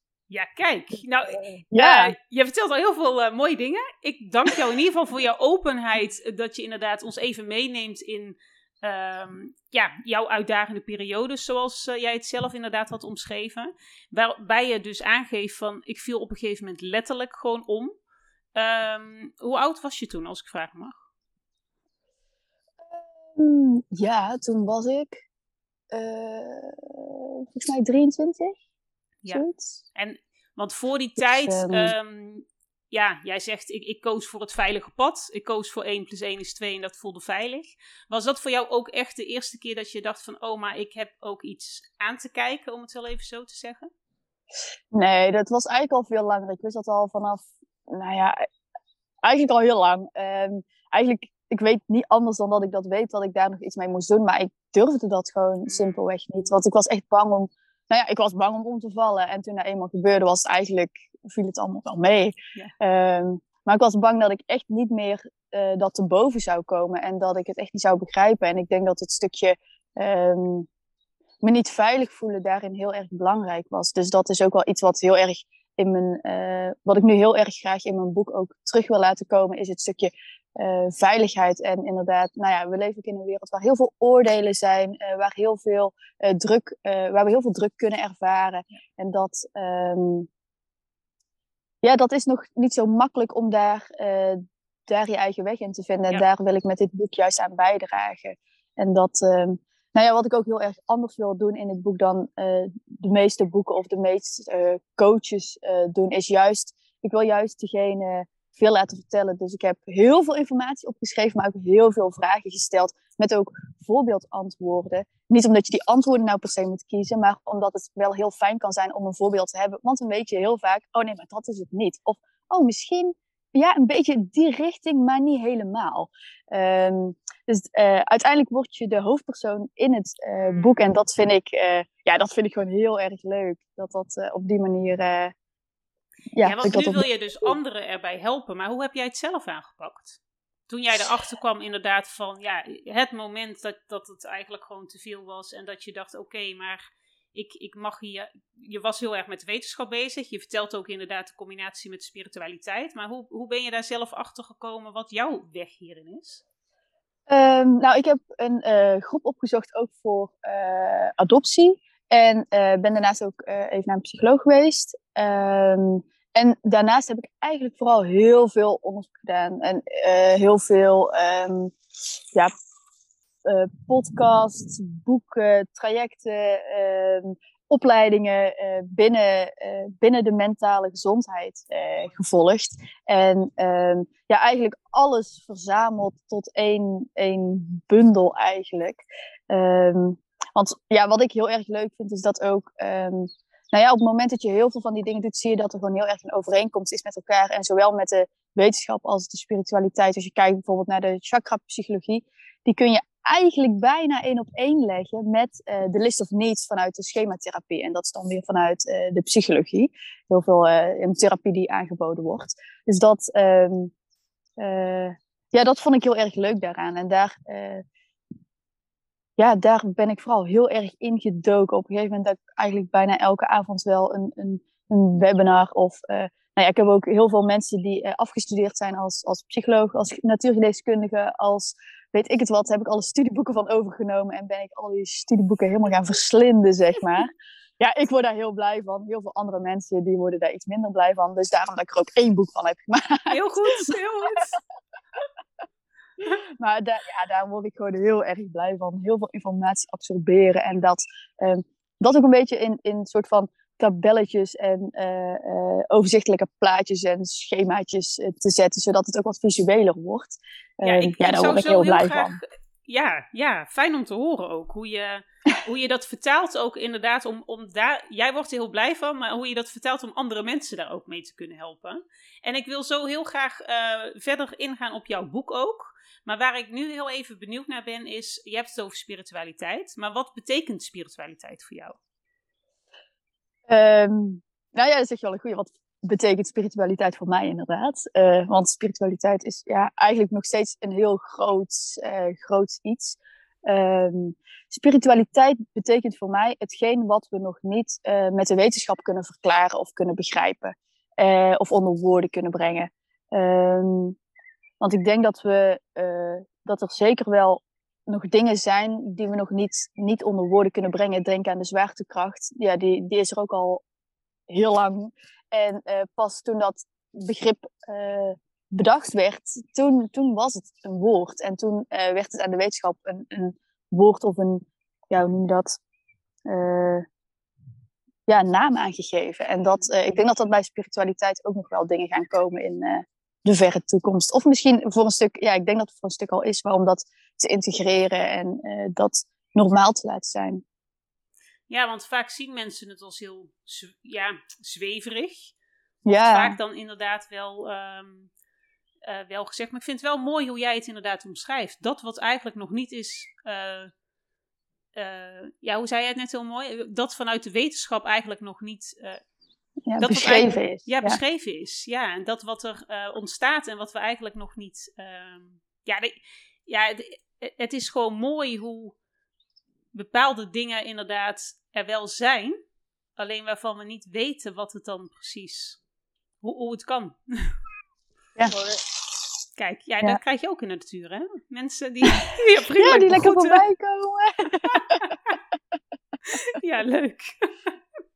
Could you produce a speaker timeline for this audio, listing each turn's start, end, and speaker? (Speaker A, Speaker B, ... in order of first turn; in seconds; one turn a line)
Speaker A: 0.3-18.0
Speaker B: 1.7-2.1
Speaker A: 18.5-21.0
Speaker B: 22.9-25.2
Speaker B: 25.9-28.6
Speaker B: 29.3-29.8
Speaker A: 29.9-43.9
Speaker B: 31.2-31.9
Speaker B: 44.9-48.4
Speaker B: 49.2-70.7
Speaker A: 55.6-56.0
Speaker B: 71.4-90.3
Speaker B: 91.8-135.3
Speaker A: 130.4-130.8
Speaker B: 136.3-137.5
Speaker A: 136.4-156.4
Speaker B: 157.3-171.7
Speaker B: 173.4-213.9
Speaker B: 214.6-217.8
Speaker B: 219.4-243.3
Speaker A: 243.3-244.6
Speaker B: 246.4-262.4
Speaker A: 260.8-282.0
Speaker B: 283.7-304.2
Speaker B: 304.8-313.8
Speaker B: 314.5-325.8
Speaker B: 326.4-327.0
Speaker B: 328.3-340.6
Speaker A: 341.7-345.5
Speaker B: 346.0-346.6
Speaker A: 346.0-348.3
Speaker A: 349.1-353.9
Speaker A: 354.9-359.2
Speaker B: 359.9-361.2
Speaker A: 360.0-368.9
Speaker A: 369.9-372.6
Speaker A: 373.2-375.8
Speaker A: 376.4-377.5
Speaker B: 378.4-378.8
Speaker A: 379.6-383.6
Speaker B: 382.7-385.1
Speaker A: 384.7-385.4
Speaker A: 386.3-387.7